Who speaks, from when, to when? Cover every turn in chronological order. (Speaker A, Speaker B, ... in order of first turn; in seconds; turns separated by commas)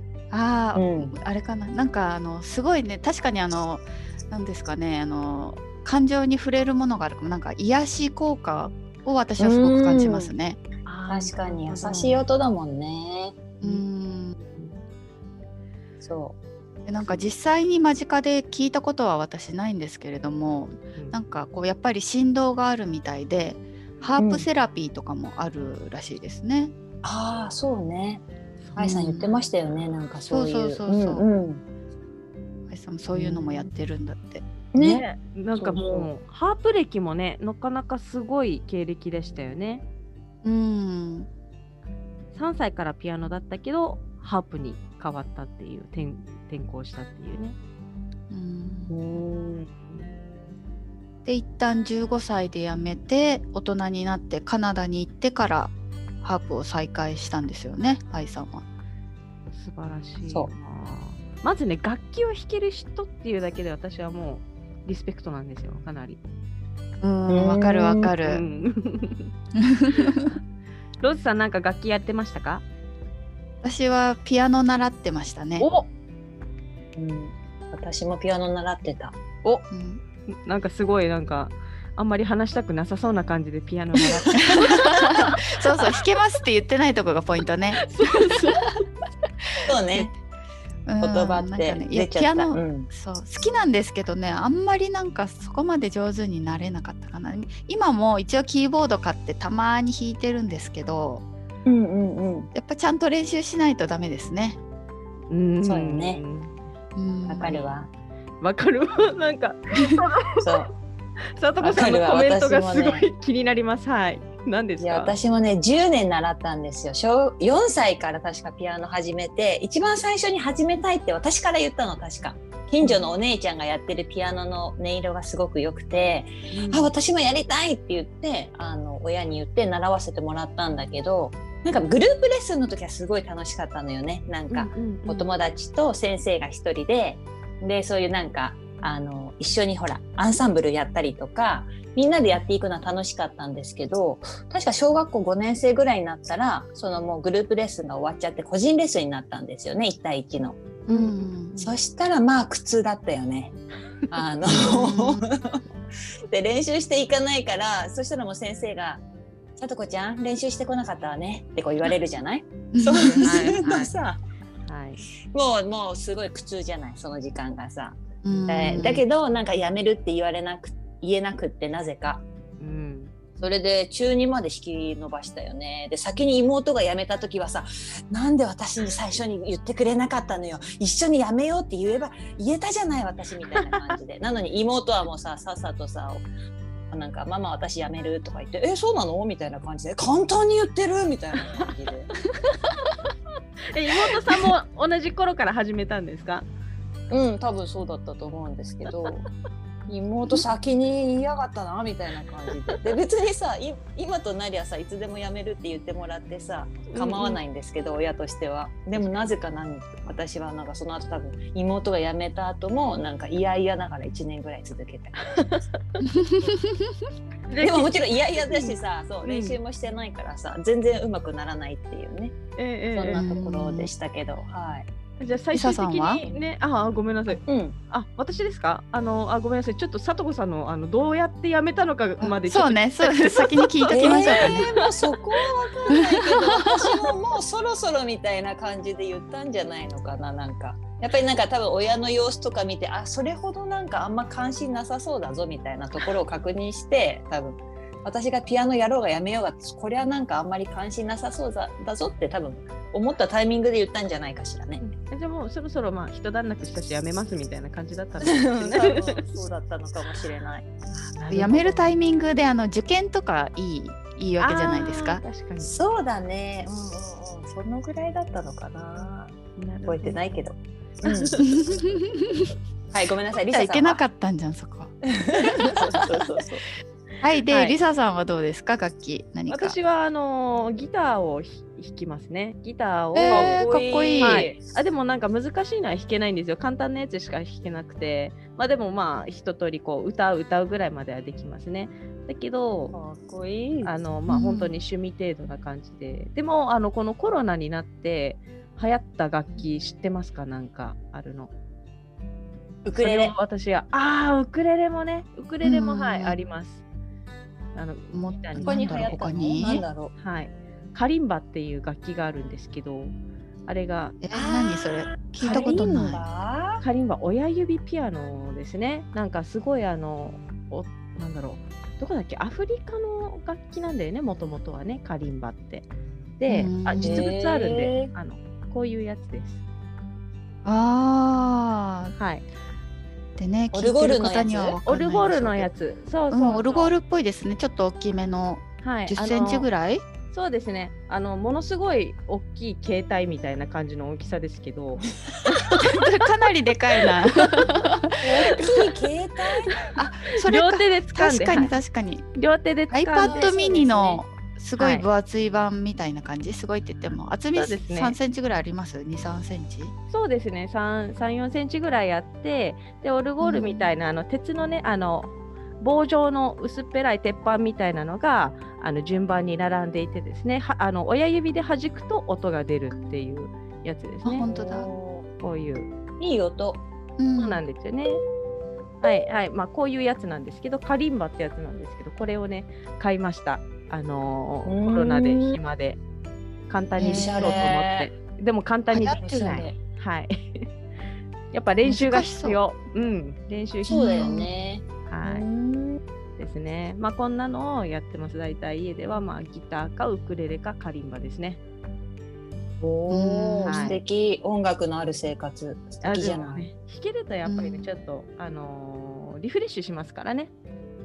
Speaker A: 0.3-10.6, Speaker B: 0.8-1.1, Speaker B: 9.4-10.3, Speaker C: 10.8-12.3, Speaker B: 11.1-13.3, Speaker A: 13.6-14.4, Speaker B: 16.0-16.4, Speaker A: 16.9-26.7, Speaker B: 24.2-24.4, Speaker B: 27.0-28.2, Speaker A: 28.8-29.4, Speaker B: 28.8-31.6, Speaker A: 30.3-31.2, Speaker A: 32.7-34.5, Speaker B: 33.1-33.4, Speaker B: 34.7-35.0, Speaker C: 34.8-39.8, Speaker B: 35.5-36.1, Speaker A: 40.4-41.3, Speaker C: 42.3-47.6, Speaker A: 48.3-48.9, Speaker B: 48.9-49.6, Speaker A: 51.2-58.6, Speaker C: 59.5-66.2, Speaker A: 67.0-68.4, Speaker B: 67.3-68.1, Speaker C: 68.2-69.3, Speaker A: 69.6-70.3, Speaker C: 69.9-70.3, Speaker C: 71.0-72.6, Speaker A: 73.6-75.7, Speaker C: 75.6-75.9, Speaker B: 77.0-79.1, Speaker A: 79.7-80.0, Speaker C: 80.3-86.0, Speaker A: 84.4-88.4, Speaker C: 87.8-88.8, Speaker B: 89.7-90.1, Speaker A: 90.8-101.2, Speaker B: 91.0-92.9, Speaker B: 101.7-102.5, Speaker A: 102.5-104.6, Speaker C: 105.3-106.6, Speaker B: 105.6-106.2, Speaker A: 107.0-107.6, Speaker B: 107.3-107.9, Speaker C: 108.4-110.5, Speaker A: 109.8-110.0, Speaker B: 110.4-110.7, Speaker C: 111.3-115.1, Speaker B: 111.6-113.0, Speaker B: 114.8-150.6, Speaker A: 126.5-126.9, Speaker C: 126.6-126.8, Speaker C: 134.5-135.3, Speaker A: 150.9-151.5, Speaker C: 150.9-151.7, Speaker B: 151.6-153.5, Speaker B: 154.1-155.6, Speaker A: 154.5-155.3, Speaker B: 156.3-159.0, Speaker B: 159.6-164.2, Speaker A: 162.7-163.5, Speaker C: 163.0-163.9, Speaker C: 164.7-165.0, Speaker B: 165.3-172.2, Speaker A: 168.2-169.0, Speaker C: 172.6-173.1, Speaker B: 173.4-186.2, Speaker B: 186.9-192.1, Speaker C: 192.5-193.0, Speaker C: 193.7-196.5, Speaker B: 197.1-199.2, Speaker B: 199.9-215.4, Speaker C: 206.9-207.4, Speaker C: 215.3-216.1, Speaker A: 216.0-216.9, Speaker C: 217.5-219.6, Speaker B: 217.6-222.3, Speaker C: 222.6-223.2, Speaker B: 222.9-224.9, Speaker A: 223.1-223.9, Speaker C: 225.2-234.9, Speaker A: 225.5-226.2, Speaker B: 227.4-227.8, Speaker A: 232.2-234.7, Speaker B: 233.9-254.8, Speaker A: 236.0-236.9, Speaker C: 254.8-259.1, Speaker B: 258.2-260.7, Speaker C: 261.0-261.9, Speaker A: 261.3-265.2, Speaker C: 264.4-265.7, Speaker B: 265.6-271.4, Speaker C: 269.6-270.2, Speaker C: 271.0-271.4, Speaker A: 271.4-272.5, Speaker B: 272.9-274.0, Speaker A: 273.5-276.1, Speaker B: 275.1-276.6, Speaker A: 277.2-279.8, Speaker C: 277.5-277.8, Speaker C: 279.5-283.6, Speaker A: 283.1-284.5, Speaker B: 283.2-284.6, Speaker C: 284.2-292.9, Speaker B: 292.9-293.9, Speaker C: 293.8-301.5, Speaker A: 294.3-294.8, Speaker B: 302.8-303.3, Speaker C: 303.0-306.8, Speaker A: 305.6-306.4, Speaker C: 307.7-309.2, Speaker A: 308.1-309.8, Speaker B: 308.6-310.1, Speaker C: 310.2-313.1, Speaker C: 313.7-314.1, Speaker A: 314.2-316.2, Speaker B: 314.3-316.8, Speaker C: 316.8-325.9, Speaker C: 326.4-329.6, Speaker A: 326.5-327.3, Speaker B: 327.0-328.1, Speaker A: 330.6-332.1, Speaker C: 332.1-332.4, Speaker A: 333.4-335.7, Speaker B: 333.7-334.8, Speaker C: 334.8-336.9, Speaker A: 336.3-340.0, Speaker C: 338.8-339.7, Speaker C: 340.3-345.1, Speaker A: 345.6-348.2, Speaker C: 347.3-347.9, Speaker B: 348.2-349.8, Speaker A: 349.9-352.2, Speaker C: 350.4-351.7, Speaker C: 352.3-353.5, Speaker A: 352.9-359.9, Speaker B: 353.2-354.2, Speaker C: 354.8-355.0, Speaker C: 357.5-358.2, Speaker C: 360.1-374.5, Speaker A: 363.4-363.9, Speaker A: 374.2-374.9, Speaker B: 374.4-375.2, Speaker C: 375.4-375.9, Speaker B: 376.2-376.8, Speaker A: 377.2-377.6, Speaker C: 377.4-378.2, Speaker C: 379.0-386.0, Speaker B: 384.6-385.6, Speaker C: 386.7-390.7, Speaker A: 386.9-387.7, Speaker B: 387.0-388.1, Speaker A: 388.9-389.7, Speaker B: 389.1-389.7, Speaker C: 391.5-394.4, Speaker A: 391.8-392.6, Speaker B: 393.9-396.0, Speaker A: 393.9-394.5, Speaker C: 395.1-395.4, Speaker C: 396.4-401.6, Speaker B: 402.8-406.6, Speaker A: 403.1-404.0, Speaker C: 403.6-404.0, Speaker C: 406.0-410.5, Speaker A: 407.4-407.9